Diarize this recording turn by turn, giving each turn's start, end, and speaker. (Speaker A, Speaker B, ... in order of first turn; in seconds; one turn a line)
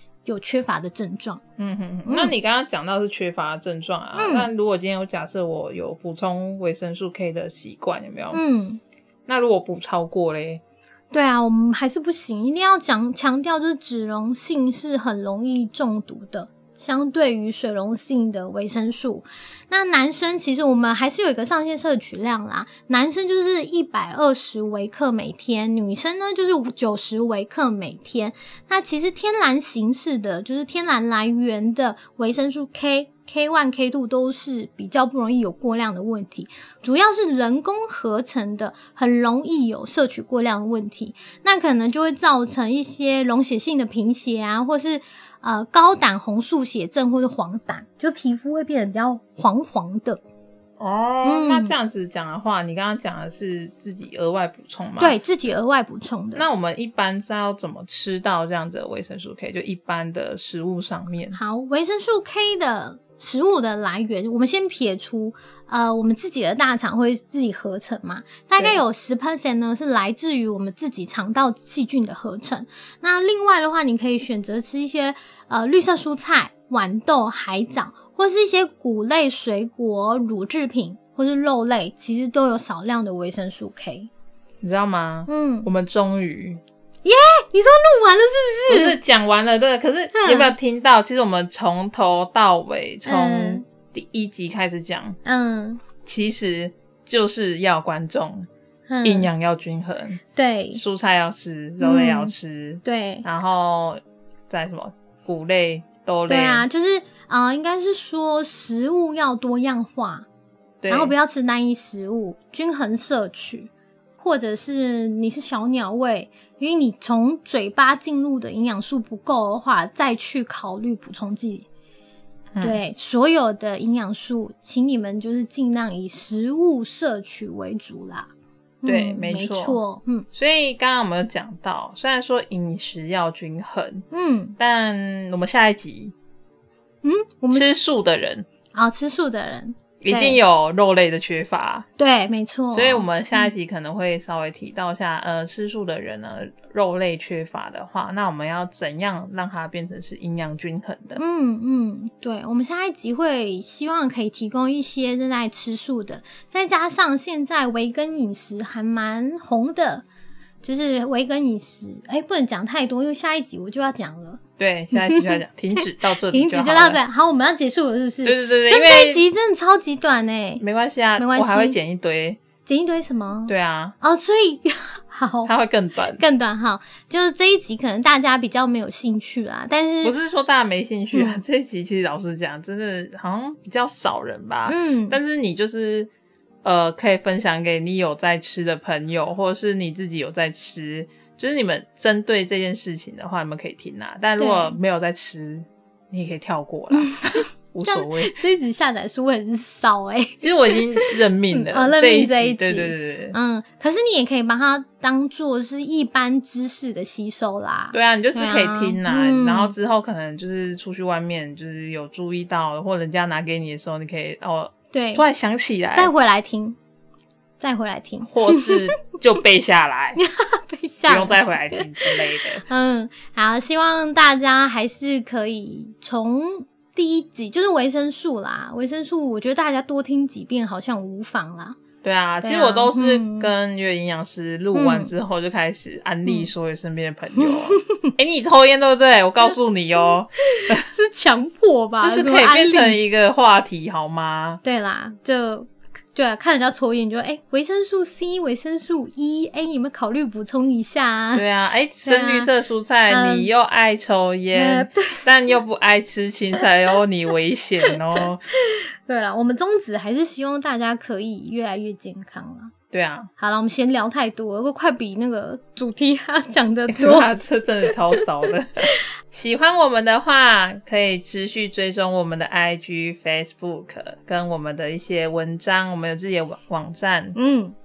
Speaker A: 0.3-1.4
Speaker B: 1.6-8.4
Speaker A: 2.1-2.3
Speaker A: 4.2-4.5
Speaker A: 8.3-8.8
Speaker B: 9.3-10.6
Speaker A: 11.1-50.2
Speaker B: 50.8-55.2
Speaker A: 51.2-51.7
Speaker A: 55.0-56.5
Speaker B: 56.4-61.4
Speaker A: 61.3-84.1
Speaker B: 84.6-86.6
Speaker A: 85.3-85.7
Speaker A: 87.0-89.0
Speaker B: 88.7-95.2
Speaker A: 90.1-90.5
Speaker A: 93.0-93.7
Speaker A: 95.2-95.8
Speaker B: 96.0-98.5
Speaker A: 98.9-99.3
Speaker B: 99.0-100.2
Speaker A: 100.3-100.8
Speaker B: 100.8-106.7
Speaker A: 101.8-103.3
Speaker A: 106.3-110.3
Speaker B: 110.8-111.1
Speaker A: 110.9-121.7
Speaker A: 122.6-128.3
Speaker A: 128.8-130.3
Speaker B: 128.8-129.8
Speaker B: 130.3-134.1
Speaker A: 134.1-134.6
Speaker B: 134.6-136.1
Speaker A: 137.0-137.7
Speaker B: 137.5-138.5
Speaker A: 138.8-140.4
Speaker B: 140.0-141.9
Speaker A: 142.0-143.5
Speaker B: 142.7-151.2
Speaker A: 151.2-160.1
Speaker A: 160.6-164.4
Speaker B: 164.6-167.0
Speaker A: 164.9-170.6
Speaker B: 168.2-169.3
Speaker B: 170.6-172.4
Speaker A: 171.2-171.8
Speaker A: 172.7-175.5
Speaker B: 173.5-173.9
Speaker B: 175.5-176.2
Speaker A: 176.2-180.1
Speaker B: 180.0-186.1
Speaker A: 181.1-181.4
Speaker A: 184.7-185.2
Speaker B: 186.6-198.4
Speaker A: 194.4-194.8
Speaker A: 196.9-209.7
Speaker B: 200.4-203.3
Speaker B: 207.9-216.1
Speaker A: 214.9-215.2
Speaker A: 215.9-216.8
Speaker A: 217.6-218.8
Speaker B: 218.2-220.2
Speaker A: 220.2-231.8
Speaker B: 221.1-222.7
Speaker B: 232.0-240.9
Speaker A: 232.4-233.5
Speaker A: 234.7-235.1
Speaker A: 237.4-238.1
Speaker A: 240.5-243.0
Speaker B: 242.0-244.6
Speaker A: 244.6-251.4
Speaker B: 251.3-258.5
Speaker A: 252.1-252.5
Speaker A: 253.1-253.5
Speaker A: 254.5-255.3
Speaker A: 258.5-262.7
Speaker B: 262.9-263.3
Speaker A: 263.4-267.3
Speaker B: 266.9-277.4
Speaker A: 267.9-268.2
Speaker A: 277.4-277.8